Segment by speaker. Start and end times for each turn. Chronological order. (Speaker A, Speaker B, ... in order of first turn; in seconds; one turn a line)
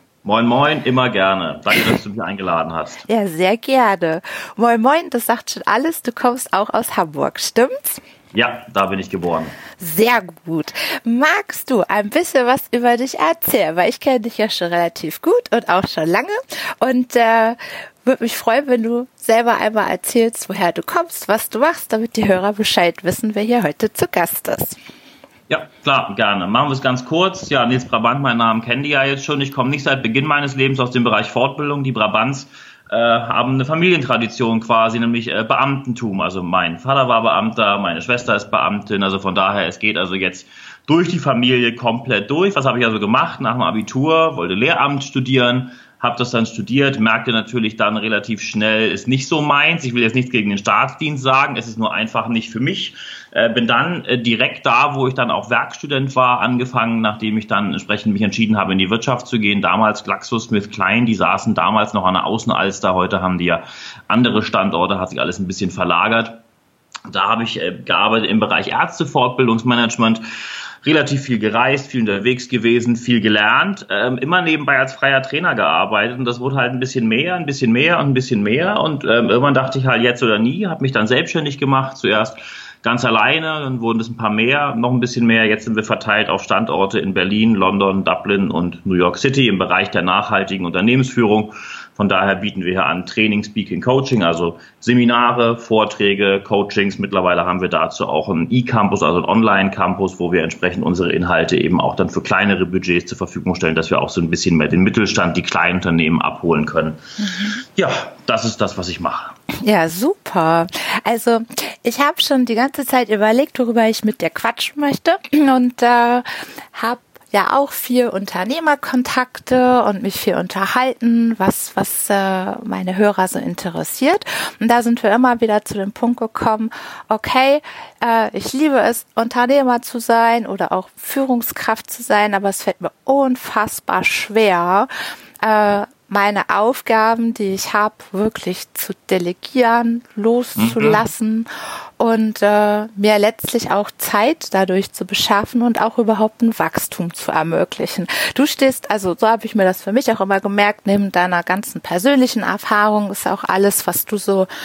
Speaker A: 0.2-3.0
Speaker B: 3.1-8.0
Speaker A: 8.3-9.6
Speaker B: 9.8-24.8
Speaker A: 25.5-66.4
Speaker A: 67.1-70.2
Speaker A: 70.8-107.0
Speaker B: 107.2-107.6
Speaker A: 107.6-109.3
Speaker B: 109.5-134.9
Speaker B: 135.4-154.5
Speaker A: 140.6-141.0